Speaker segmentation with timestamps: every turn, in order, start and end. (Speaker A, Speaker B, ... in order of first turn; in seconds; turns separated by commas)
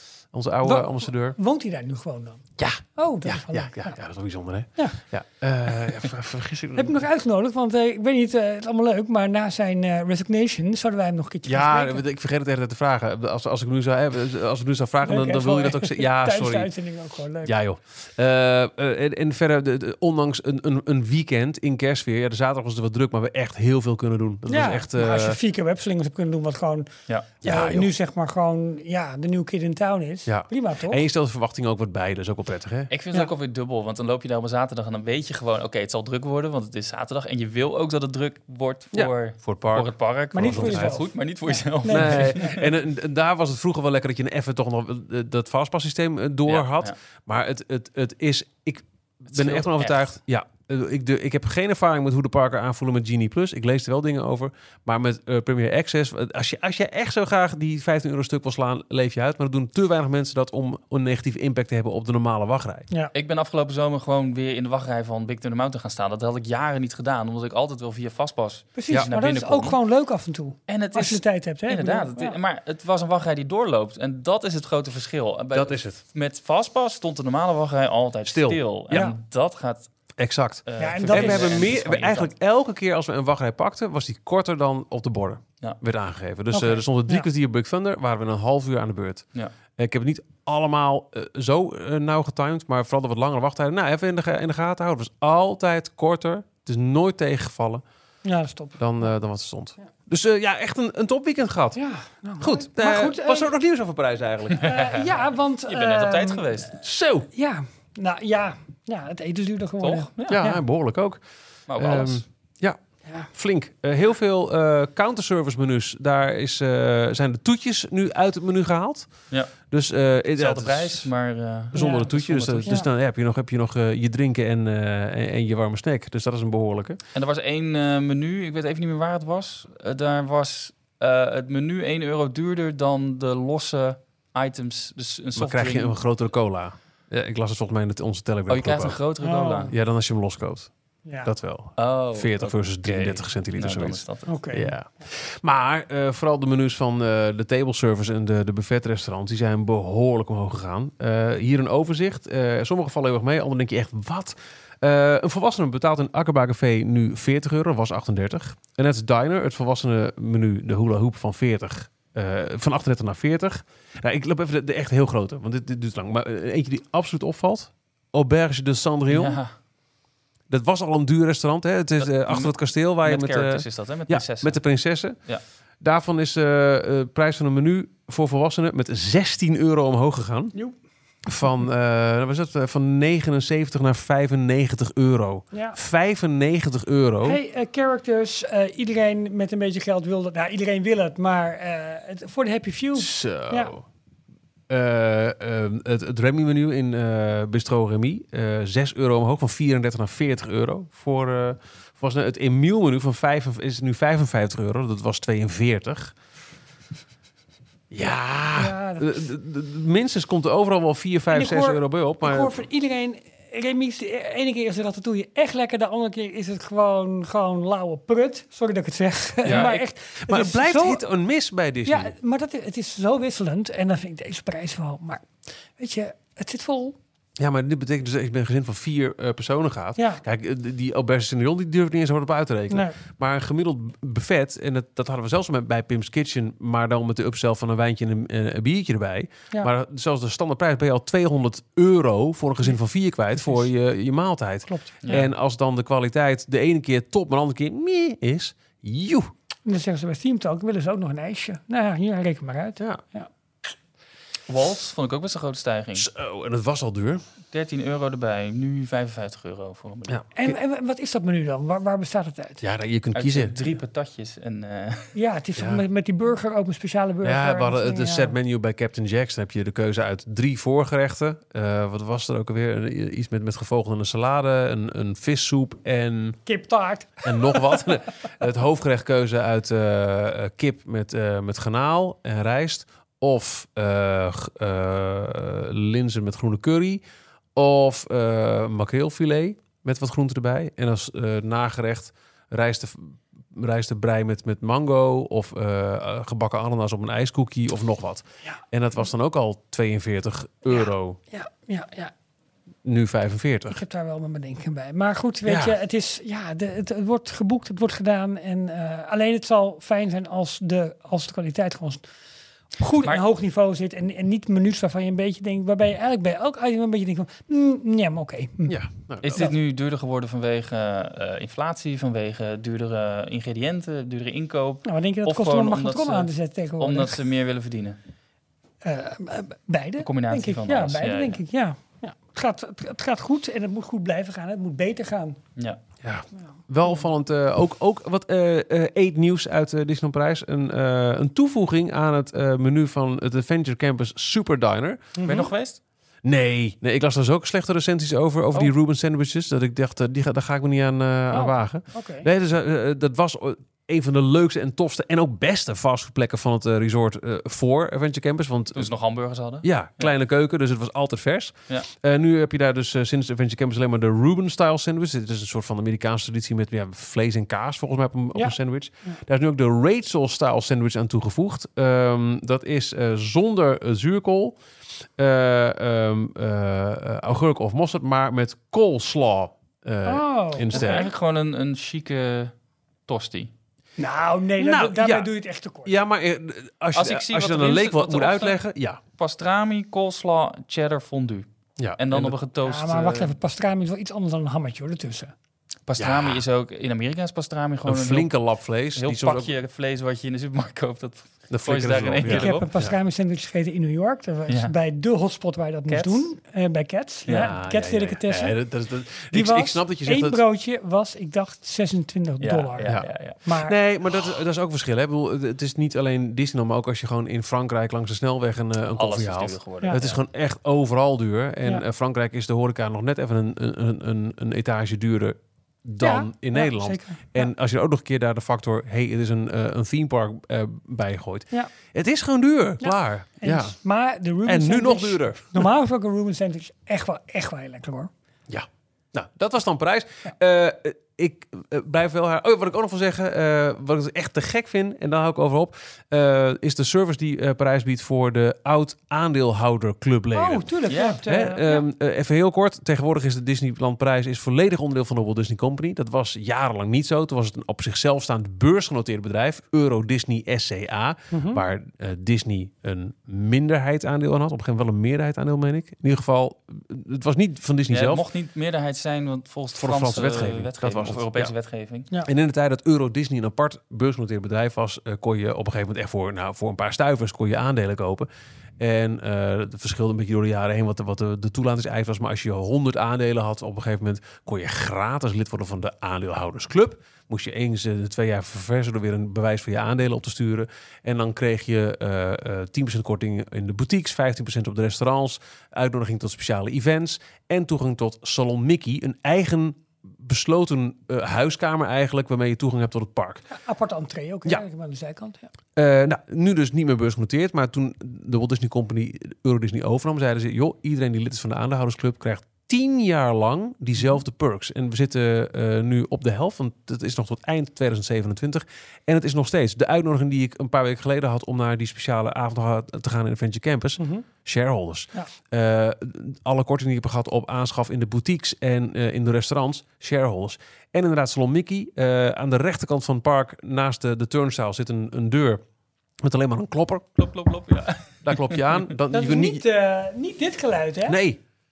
Speaker A: 0.3-1.4, Speaker B: 0.6-2.4, Speaker A: 2.6-7.0, Speaker B: 2.9-4.0, Speaker B: 6.7-12.0, Speaker A: 11.4-16.7, Speaker B: 15.0-17.5, Speaker A: 17.4-25.4, Speaker B: 24.5-26.9, Speaker A: 27.4-27.9, Speaker B: 27.4-31.0, Speaker A: 30.2-32.9, Speaker C: 32.9-42.7, Speaker A: 38.9-41.0, Speaker B: 40.3-42.5, Speaker A: 41.8-62.9, Speaker C: 46.5-47.0, Speaker C: 49.3-50.1, Speaker C: 63.1-69.8, Speaker B: 68.7-72.4, Speaker C: 70.7-80.0, Speaker A: 75.5-76.0, Speaker A: 78.2-79.1, Speaker A: 80.2-89.2, Speaker C: 80.7-82.3, Speaker B: 80.8-81.5, Speaker B: 86.5-87.3, Speaker A: 89.8-97.8, Speaker B: 98.2-98.8, Speaker A: 98.8-101.8, Speaker B: 101.7-103.5, Speaker A: 102.4-104.8, Speaker B: 104.6-106.5, Speaker C: 104.6-105.1, Speaker C: 105.7-106.8, Speaker A: 106.8-107.3, Speaker B: 107.3-110.6, Speaker C: 109.8-110.4, Speaker A: 110.3-111.2, Speaker C: 111.7-112.2, Speaker A: 111.8-121.1, Speaker C: 120.3-122.8, Speaker A: 121.7-127.0, Speaker B: 121.8-122.1, Speaker C: 127.1-135.9, Speaker A: 135.4-139.0, Speaker C: 138.5-139.7, Speaker B: 139.2-139.7, Speaker A: 139.7-140.7, Speaker B: 141.1-141.3, Speaker A: 141.2-169.4, Speaker C: 141.8-144.3, Speaker B: 144.3-144.7, Speaker C: 169.1-169.5, Speaker A: 170.5-175.2, Speaker C: 172.0-174.7, Speaker A: 175.8-180.5, Speaker A: 181.2-187.4, Speaker B: 187.2-193.7, Speaker A: 192.9-193.8, Speaker A: 194.7-206.1, Speaker A: 207.9-212.6, Speaker B: 208.6-209.1, Speaker B: 211.3-221.0, Speaker C: 219.4-219.8, Speaker A: 219.4-222.1, Speaker B: 221.9-227.0, Speaker A: 227.4-249.3, Speaker B: 230.0-230.2, Speaker B: 232.7-232.9, Speaker B: 243.4-243.6, Speaker B: 244.7-245.2, Speaker B: 249.7-253.3, Speaker C: 254.5-256.1, Speaker A: 255.9-257.2, Speaker C: 257.5-260.2, Speaker A: 260.1-260.5, Speaker B: 260.3-262.6, Speaker A: 262.6-263.6, Speaker C: 263.1-265.1, Speaker B: 265.1-268.3, Speaker A: 265.6-265.8, Speaker A: 267.2-276.4, Speaker B: 276.4-277.8, Speaker A: 277.2-287.0, Speaker A: 287.5-301.2, Speaker B: 300.7-302.1, Speaker A: 302.8-303.8, Speaker B: 303.7-312.1, Speaker A: 305.4-305.7, Speaker B: 312.8-318.8, Speaker A: 318.7-319.5, Speaker C: 319.2-328.0, Speaker B: 324.8-327.2, Speaker B: 328.8-335.4, Speaker C: 330.0-331.4, Speaker A: 336.0-345.5, Speaker B: 345.2-345.5, Speaker C: 345.2-345.8, Speaker A: 346.2-358.9, Speaker B: 351.3-352.3, Speaker C: 358.7-360.1, Speaker A: 359.6-374.6, Speaker B: 368.3-369.2, Speaker A: 375.2-381.1, Speaker B: 380.0-381.1, Speaker C: 380.7-382.5, Speaker C: 383.1-383.5, Speaker B: 384.0-385.9, Speaker A: 384.6-385.3, Speaker A: 385.8-389.0, Speaker C: 386.9-388.6, Speaker C: 389.2-391.4, Speaker A: 391.8-392.3, Speaker C: 392.0-393.3, Speaker B: 392.6-395.3, Speaker C: 395.9-398.3, Speaker A: 396.0-396.4, Speaker A: 397.9-399.5, Speaker C: 398.9-402.7, Speaker A: 401.5-402.9, Speaker B: 402.3-408.6, Speaker C: 404.5-404.7, Speaker C: 405.9-406.3, Speaker C: 407.3-407.5, Speaker A: 407.3-410.4, Speaker B: 409.3-413.8, Speaker C: 412.4-413.4, Speaker A: 412.8-433.8, Speaker C: 418.9-420.2, Speaker B: 426.0-427.5, Speaker B: 432.8-438.1, Speaker A: 434.4-435.7, Speaker A: 438.5-468.2, Speaker B: 450.3-451.8, Speaker C: 450.9-451.2, Speaker B: 461.3-461.6, Speaker C: 467.9-472.1, Speaker A: 469.8-471.5, Speaker A: 472.2-478.3, Speaker A: 478.8-503.4, Speaker B: 503.5-505.5, Speaker A: 505.8-535.6, Speaker B: 524.0-524.2, Speaker A: 536.2-537.1, Speaker C: 537.2-538.8, Speaker A: 538.2-539.6, Speaker B: 539.1-541.2, Speaker A: 541.1-541.4